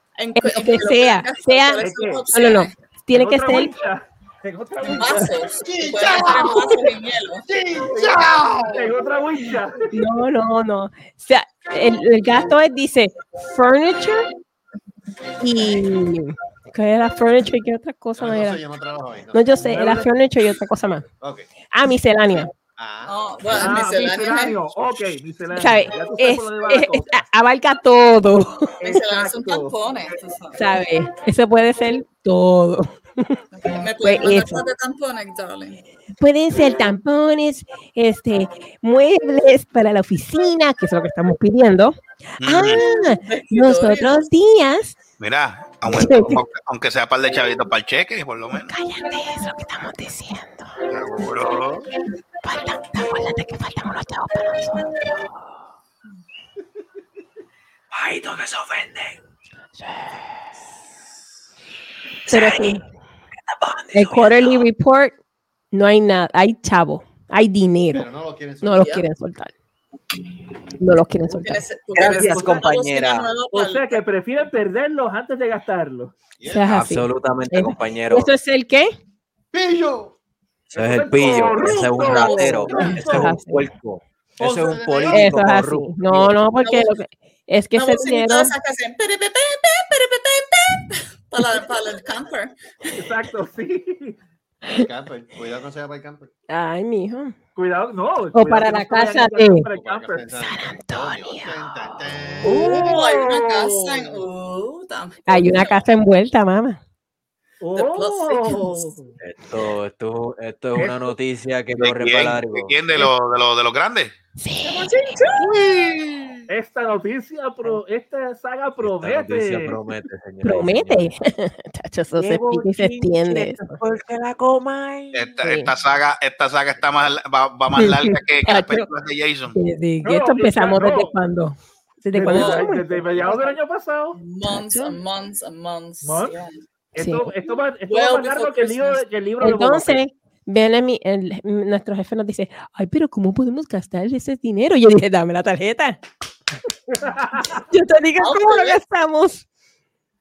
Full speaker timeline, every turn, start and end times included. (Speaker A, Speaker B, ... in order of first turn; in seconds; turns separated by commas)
Speaker A: 0.2-2.7, Speaker B: 0.3-3.7, Speaker C: 1.8-2.3, Speaker C: 3.1-5.5, Speaker A: 4.9-7.5, Speaker D: 5.6-9.0, Speaker C: 8.7-9.8, Speaker B: 9.9-14.3, Speaker B: 15.4-18.6, Speaker D: 18.2-19.5, Speaker B: 19.3-21.1, Speaker C: 19.6-20.1, Speaker D: 21.2-21.5, Speaker B: 21.7-22.5, Speaker D: 22.8-23.2, Speaker A: 23.1-24.6, Speaker C: 23.5-27.1, Speaker B: 25.5-28.8, Speaker C: 28.8-29.8, Speaker A: 28.8-30.6, Speaker B: 30.5-33.4, Speaker A: 33.5-35.8, Speaker B: 34.0-34.6, Speaker B: 36.2-45.0, Speaker E: 42.4-42.8, Speaker A: 43.1-44.2, Speaker E: 45.2-48.7, Speaker B: 45.8-46.4, Speaker B: 48.5-50.7, Speaker E: 50.9-51.9, Speaker B: 52.4-55.2, Speaker F: 57.9-59.2, Speaker B: 59.8-60.2, Speaker F: 62.3-62.8, Speaker B: 62.3-62.8, Speaker F: 63.5-64.7, Speaker B: 63.9-65.2, Speaker B: 65.7-68.1, Speaker D: 67.9-68.8, Speaker B: 68.6-69.5, Speaker A: 68.7-69.0, Speaker B: 70.8-71.6, Speaker A: 71.3-74.0, Speaker F: 72.0-73.3, Speaker C: 72.0-72.7, Speaker C: 73.5-76.1, Speaker D: 76.4-76.8, Speaker B: 76.5-78.9, Speaker F: 76.7-78.3, Speaker D: 79.5-80.2, Speaker C: 80.7-83.4, Speaker F: 80.7-86.4, Speaker B: 82.1-83.7, Speaker D: 84.4-85.4, Speaker B: 85.1-88.5, Speaker A: 86.6-86.9, Speaker A: 87.7-92.5, Speaker C: 93.0-94.2, Speaker D: 94.7-96.3, Speaker B: 96.5-97.3, Speaker C: 97.6-100.3, Speaker B: 98.3-99.7, Speaker D: 99.6-103.0, Speaker B: 100.3-101.8, Speaker A: 102.4-105.8, Speaker C: 102.4-104.2, Speaker B: 105.3-106.8, Speaker C: 107.6-109.2, Speaker A: 107.8-108.9, Speaker F: 109.2-112.8, Speaker C: 110.8-111.1, Speaker E: 111.8-114.1, Speaker B: 114.4-115.2, Speaker A: 114.6-115.5, Speaker C: 116.5-119.8, Speaker F: 118.8-121.1, Speaker B: 120.4-123.8, Speaker F: 122.2-125.4, Speaker E: 125.1-129.6, Speaker B: 125.4-125.7, Speaker B: 127.7-128.9, Speaker B: 129.5-132.9, Speaker C: 130.0-131.1, Speaker C: 132.1-134.2, Speaker A: 132.2-133.5, Speaker A: 134.2-136.6, Speaker B: 134.5-135.0, Speaker C: 136.0-136.4, Speaker C: 136.9-140.0, Speaker B: 137.0-137.3, Speaker A: 137.9-139.0, Speaker B: 139.4-146.0, Speaker C: 147.0-147.6, Speaker B: 147.7-149.4, Speaker A: 148.2-148.8